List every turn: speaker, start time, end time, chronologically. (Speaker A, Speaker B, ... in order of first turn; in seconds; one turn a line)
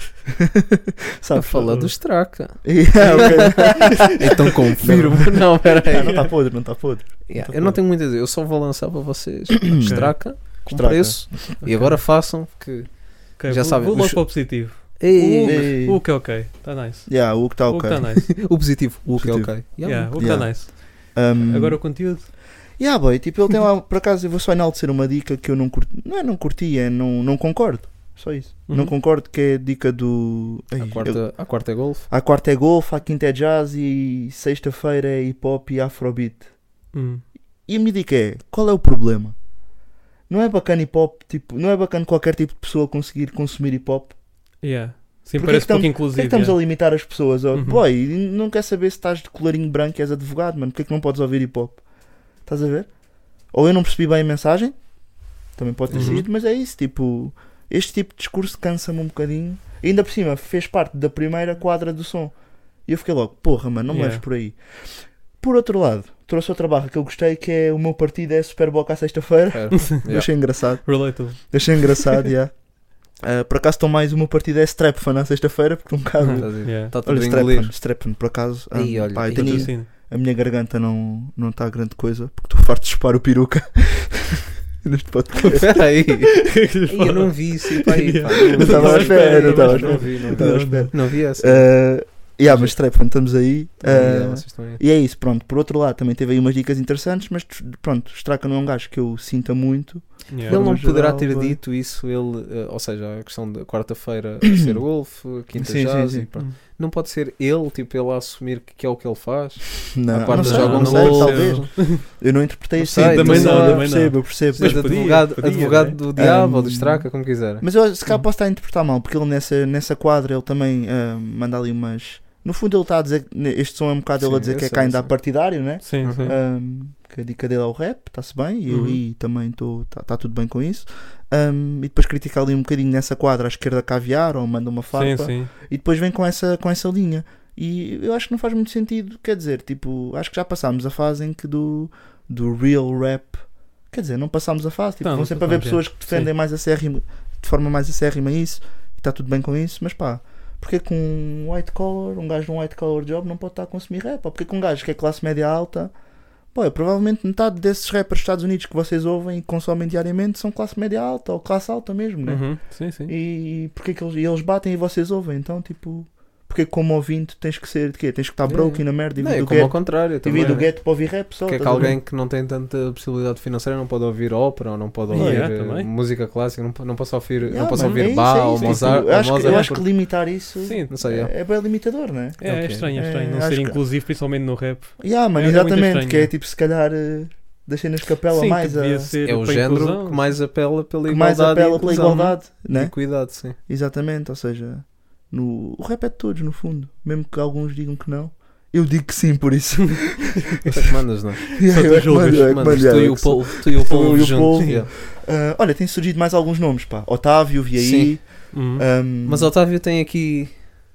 Speaker A: 0.5-1.9
Speaker B: 1.3-6.3
Speaker C: 1.6-1.9
Speaker A: 2.6-4.2
Speaker C: 3.1-3.8
Speaker A: 4.8-7.8
Speaker B: 7.3-15.8
Speaker A: 9.7-11.5
Speaker C: 9.8-10.2
Speaker C: 11.6-12.0
Speaker C: 13.4-18.3
Speaker A: 15.4-16.2
Speaker A: 17.1-18.3
Speaker B: 18.3-20.4
Speaker A: 19.1-36.5
Speaker C: 19.8-22.3
Speaker C: 28.7-28.9
Speaker B: 30.8-32.1
Speaker C: 36.9-37.2
Speaker A: 37.7-39.4
Speaker A: 40.3-44.1
Speaker C: 44.6-47.0
Speaker A: 45.4-54.9
Speaker C: 47.5-47.8
Speaker A: 55.4-86.2
Speaker B: 55.9-56.2
Speaker C: 55.9-56.2
Speaker C: 63.9-64.2
Speaker B: 69.5-70.3
Speaker C: 69.7-72.1
Speaker C: 76.2-76.9
Speaker B: 76.3-77.7
Speaker B: 78.7-79.7
Speaker C: 79.3-79.9
Speaker B: 85.4-92.8
Speaker C: 86.4-91.0
Speaker A: 88.5-101.6
Speaker B: 93.8-94.8
Speaker C: 100.3-100.7
Speaker B: 100.4-111.8
Speaker A: 105.5-106.3
Speaker A: 109.9-115.2
Speaker C: 110.3-112.0
Speaker B: 112.8-117.6
Speaker C: 112.9-116.3
Speaker A: 116.1-155.9
Speaker B: 124.2-125.1
Speaker C: 125.8-126.3
Speaker B: 126.0-126.3
Speaker C: 128.7-129.0
Speaker C: 134.9-135.5
Speaker C: 145.0-146.3
Speaker A: 156.5-172.0
Speaker C: 162.2-163.1
Speaker B: 168.4-179.8
Speaker C: 175.1-175.9
Speaker A: 175.1-175.5
Speaker A: 177.5-183.8
Speaker C: 177.8-180.9
Speaker B: 180.9-181.3
Speaker C: 182.4-186.3
Speaker B: 182.4-182.9
Speaker A: 185.0-189.1
Speaker C: 188.3-190.3
Speaker B: 189.2-193.6
Speaker A: 191.1-200.7
Speaker B: 200.7-201.6
Speaker A: 201.6-209.5
Speaker C: 201.6-202.8
Speaker B: 202.2-204.9
Speaker C: 204.6-204.8
Speaker B: 207.7-208.4
Speaker C: 208.5-208.8
Speaker B: 209.2-210.6